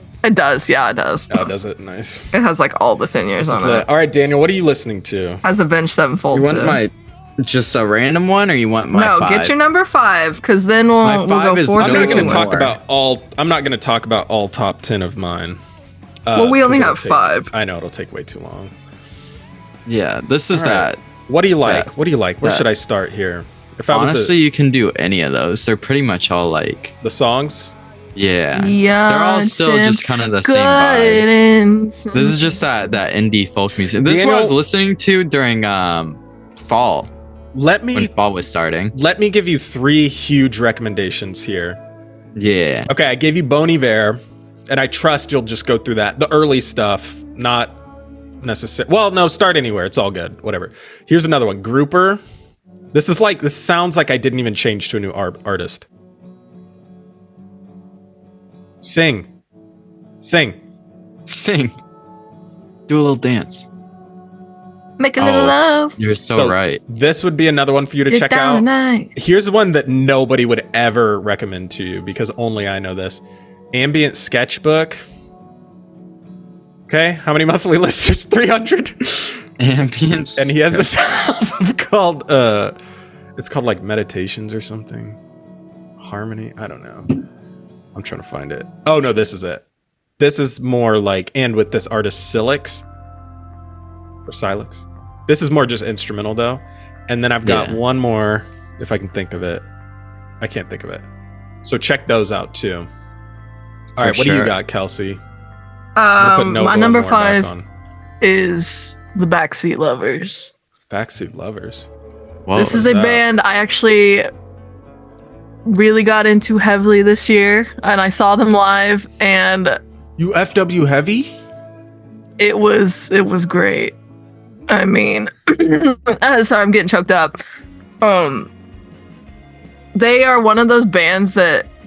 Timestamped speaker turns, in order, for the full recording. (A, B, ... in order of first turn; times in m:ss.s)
0:00.2-0:01.5 A
0:01.3-0:02.3 B
0:02.3-0:03.9 A
0:03.4-0:05.4 B
0:05.4-0:06.8 A
0:06.3-0:09.5 C
0:08.9-0:12.5 A
0:11.0-0:12.8 C
0:11.8-0:15.6 B
0:16.3-0:18.8 B
0:16.4-0:17.5 A
0:19.9-0:21.0 C
0:20.5-0:24.3 B
0:23.9-0:26.9 C
0:27.0-0:27.8 B
0:28.2-0:31.3 C
0:28.6-0:32.6 A
0:32.1-0:37.1 C
0:34.0-0:34.6 B
0:37.5-0:38.1 B
0:37.9-0:38.9 C
0:38.9-0:41.8 B
0:42.4-0:42.9 C
0:42.9-0:47.8 B
0:48.4-0:52.2 B
0:52.9-0:55.9 B
0:58.8-0:59.3 B
1:00.2-1:00.6 B
1:01.3-1:01.7 C
1:02.9-1:03.7 C
1:05.0-1:06.0 A
1:05.2-1:06.8 C
1:06.3-1:13.2 B
1:08.1-1:09.1 A
1:13.7-1:15.0 B
1:16.9-1:19.5 B
1:19.6-1:20.9 C
1:20.4-1:22.8 B
1:23.4-1:25.2 B
1:26.0-1:27.1 B
1:27.9-1:29.6 B
1:30.2-1:32.8 B
1:34.3-1:39.7 B
1:37.4-1:37.8 C
1:40.4-1:41.0 B
1:41.6-1:42.9 B
1:44.0-1:45.2 B
1:44.0-1:44.5 C
1:46.0-1:47.5 A
1:46.2-1:47.7 B
1:48.2-1:50.5 A
1:50.9-1:51.9 B
1:52.5-1:52.9 C
1:52.6-1:53.2 B
1:52.6-1:54.3 A
1:55.7-1:59.8 A
2:00.2-2:01.3 B
2:02.4-2:04.0 A
2:04.7-2:07.4 A
2:08.0-2:08.5 A
2:10.0-2:11.7 A